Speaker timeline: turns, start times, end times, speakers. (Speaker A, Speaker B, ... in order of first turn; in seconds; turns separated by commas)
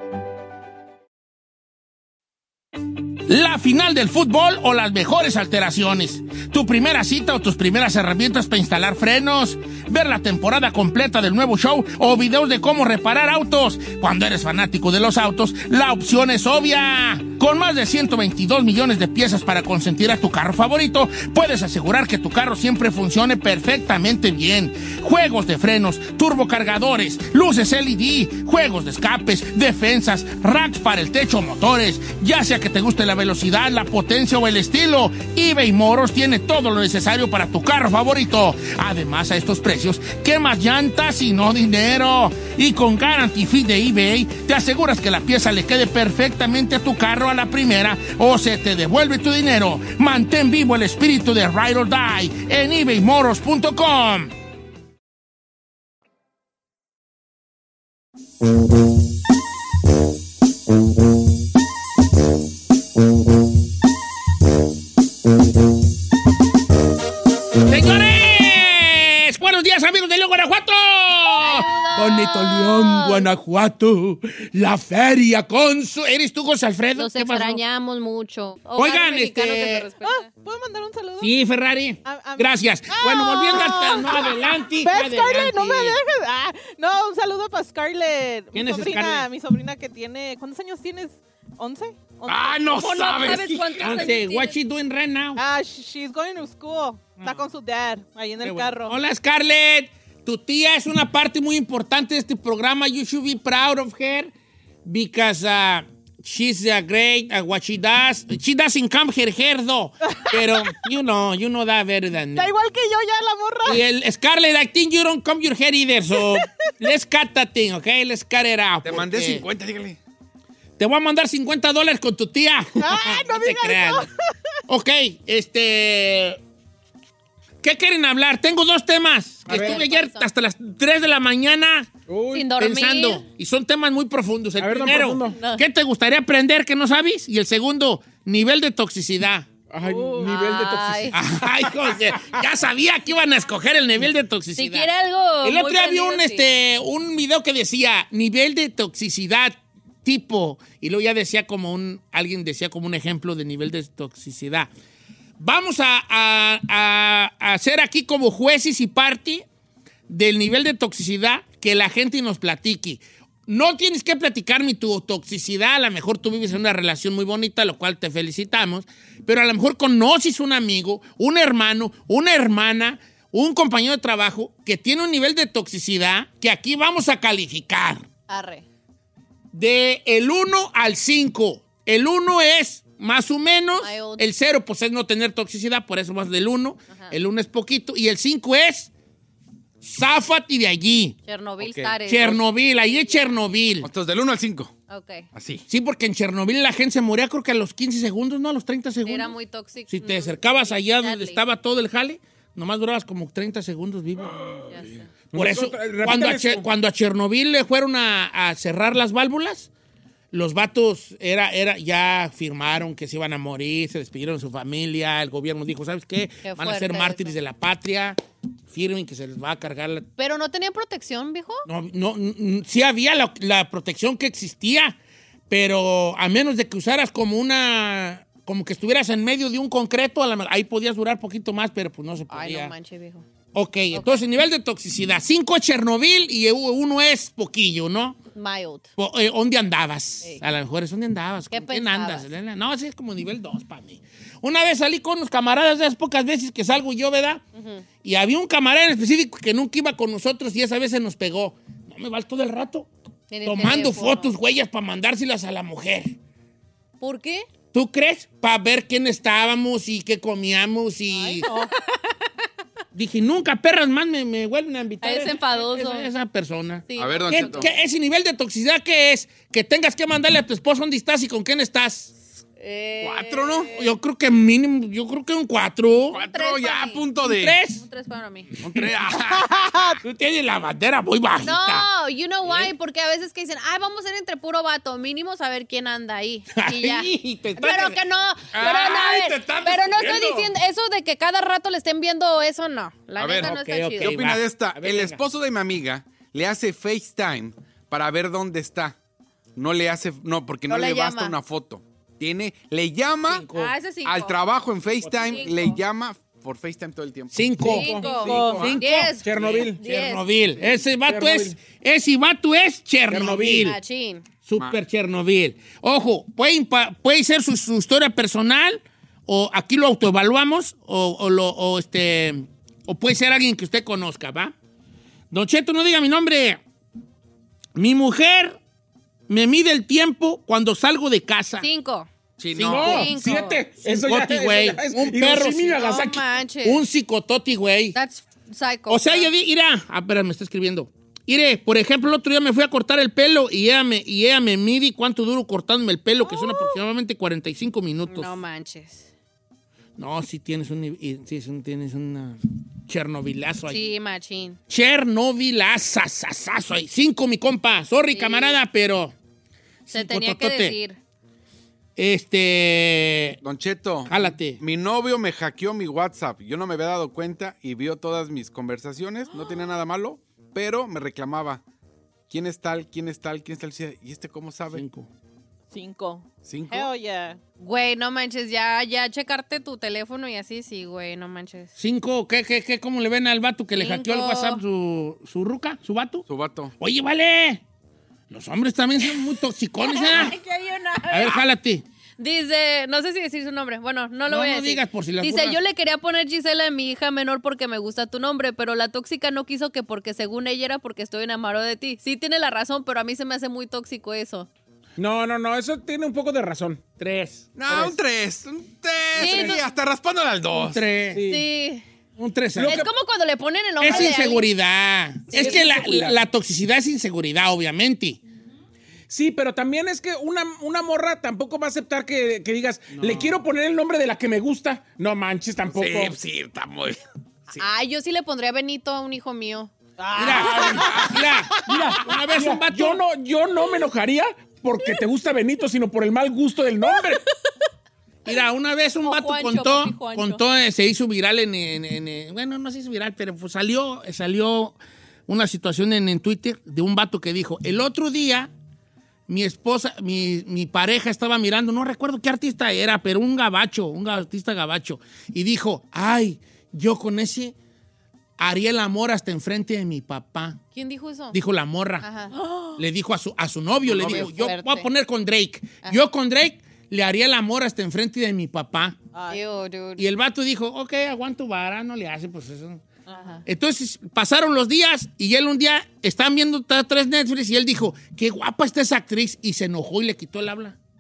Speaker A: 3.3-54.3, Speaker A: 67.7-77.6, Speaker B: 71.3-73.3, Speaker B: 77.0-80.3, Speaker A: 78.8-79.9, Speaker C: 80.1-81.3, Speaker A: 81.2-86.0, Speaker C: 82.0-92.5, Speaker A: 88.5-89.3, Speaker D: 92.3-94.0, Speaker B: 92.8-94.6, Speaker A: 93.7-95.4, Speaker C: 95.4-98.9, Speaker A: 97.2-97.5, Speaker A: 98.4-104.3, Speaker A: 104.8-112.5, Speaker C: 110.1-110.4, Speaker C: 112.4-113.8, Speaker A: 113.7-119.5, Speaker D: 118.8-120.0, Speaker A: 120.8-124.1, Speaker C: 122.8-124.1, Speaker A: 124.7-126.4, Speaker A: 127.6-131.9, Speaker E: 129.5-129.8, Speaker B: 129.5-130.3, Speaker E: 132.1-132.5, Speaker B: 132.3-133.2, Speaker A: 132.6-139.5, Speaker E: 134.6-135.4, Speaker B: 135.3-135.6, Speaker E: 139.7-141.2, Speaker B: 139.8-141.2, Speaker A: 141.1-144.9, Speaker B: 144.6-146.5, Speaker A: 145.4-154.7, Speaker A: 155.4-159.4, Speaker A: 160.1-178.1, Speaker B: 178.3-178.7, Speaker A: 179.5-188.9, Speaker B: 183.8-184.2, Speaker A: 189.8-191.2, Speaker B: 191.3-192.4, Speaker D: 191.6-191.9, Speaker A: 192.1-193.9, Speaker D: 193.8-194.7, Speaker B: 194.9-195.3, Speaker D: 195.3-195.6, Speaker A: 195.7-199.4, Speaker B: 199.1-201.4, Speaker A: 199.9-204.6, Speaker B: 204.7-205.1, Speaker E: 205.3-206.7, Speaker A: 205.3-209.7, Speaker A: 210.3-218.2, Speaker B: 216.4-217.4, Speaker A: 218.7-220.1, Speaker B: 220.2-221.7, Speaker A: 221.7-225.0, Speaker A: 225.5-232.7, Speaker B: 232.3-233.2, Speaker A: 233.5-238.2, Speaker B: 233.9-234.2, Speaker B: 238.3-238.9, Speaker A: 239.0-247.4, Speaker B: 241.5-242.3, Speaker B: 247.5-247.8, Speaker A: 248.0-252.9, Speaker B: 253.3-254.3, Speaker A: 253.4-256.1, Speaker B: 257.0-257.5, Speaker A: 257.7-261.5, Speaker C: 261.2-261.7, Speaker A: 262.9-272.1, Speaker B: 265.0-266.1, Speaker B: 266.9-267.7, Speaker D: 267.0-267.7, Speaker B: 272.6-273.9, Speaker D: 273.0-273.7, Speaker A: 273.7-276.2, Speaker D: 276.1-277.6, Speaker B: 276.1-277.1, Speaker A: 277.2-277.8, Speaker B: 277.8-278.5, Speaker A: 278.6-278.9, Speaker D: 278.6-279.8, Speaker C: 279.7-280.0, Speaker A: 280.0-281.9, Speaker B: 281.4-294.2, Speaker A: 282.4-282.7, Speaker A: 286.6-288.0, Speaker D: 288.5-290.4, Speaker A: 288.6-289.2, Speaker D: 293.2-299.0, Speaker A: 293.3-295.2, Speaker D: 299.6-303.5, Speaker B: 300.7-301.4, Speaker A: 303.3-303.7, Speaker B: 303.5-304.4, Speaker D: 304.1-307.4, Speaker A: 305.0-305.5, Speaker B: 305.2-305.8, Speaker A: 307.3-313.8, Speaker E: 307.6-308.6, Speaker B: 307.6-310.2, Speaker D: 308.2-308.8, Speaker C: 308.3-308.6, Speaker E: 309.2-309.8, Speaker E: 311.1-311.6, Speaker E: 313.1-313.8, Speaker B: 313.6-314.2, Speaker A: 314.5-324.5, Speaker A: 325.3-326.6, Speaker A: 327.8-328.6, Speaker A: 329.3-331.7, Speaker B: 331.6-332.1, Speaker A: 332.4-333.1, Speaker D: 332.4-332.8, Speaker B: 332.6-333.6, Speaker E: 332.7-336.2, Speaker A: 333.9-335.9, Speaker B: 335.7-336.8, Speaker A: 336.6-338.0, Speaker B: 337.9-339.3, Speaker A: 338.9-348.3, Speaker B: 346.2-346.8, Speaker B: 348.1-349.1, Speaker A: 350.0-353.8, Speaker B: 353.7-354.6, Speaker A: 354.7-359.1, Speaker B: 358.1-358.6, Speaker A: 359.9-360.8, Speaker B: 359.9-361.0, Speaker A: 362.0-363.4, Speaker D: 363.4-371.6, Speaker A: 364.1-364.6, Speaker D: 372.3-374.8, Speaker A: 374.7-375.1, Speaker C: 375.7-377.4, Speaker D: 376.4-376.9, Speaker B: 377.6-381.7, Speaker A: 381.8-386.2, Speaker B: 383.8-384.6, Speaker D: 386.3-386.7, Speaker A: 386.8-387.6, Speaker A: 388.3-390.4, Speaker B: 389.8-391.4, Speaker A: 391.1-391.8, Speaker B: 392.2-404.5, Speaker A: 394.3-395.6, Speaker E: 405.0-406.8, Speaker A: 407.0-407.5, Speaker D: 407.6-410.8, Speaker E: 407.7-408.0, Speaker B: 409.1-409.6, Speaker E: 409.2-409.6, Speaker A: 410.5-411.2, Speaker E: 411.1-411.5, Speaker B: 411.3-411.9, Speaker A: 412.2-412.9, Speaker E: 412.6-412.9, Speaker B: 412.6-414.5, Speaker A: 413.8-418.2, Speaker E: 413.9-414.2, Speaker B: 415.3-415.7, Speaker E: 415.3-416.2, Speaker E: 419.1-426.2, Speaker A: 422.9-423.4, Speaker D: 425.7-427.0, Speaker B: 427.6-429.7, Speaker C: 430.0-430.9, Speaker A: 430.2-433.0, Speaker D: 430.8-431.1, Speaker E: 431.7-437.2, Speaker A: 438.2-444.8, Speaker B: 439.0-440.4, Speaker A: 445.3-448.5, Speaker A: 449.3-457.5, Speaker A: 458.4-460.6, Speaker B: 460.7-461.4, Speaker A: 461.3-462.1, Speaker B: 462.0-462.3, Speaker C: 462.4-462.8, Speaker A: 462.8-469.0, Speaker D: 463.9-464.2, Speaker B: 464.0-464.9, Speaker C: 469.1-469.4, Speaker B: 469.3-470.0, Speaker A: 470.0-472.8, Speaker C: 473.1-473.4, Speaker B: 473.1-473.4, Speaker A: 473.5-480.8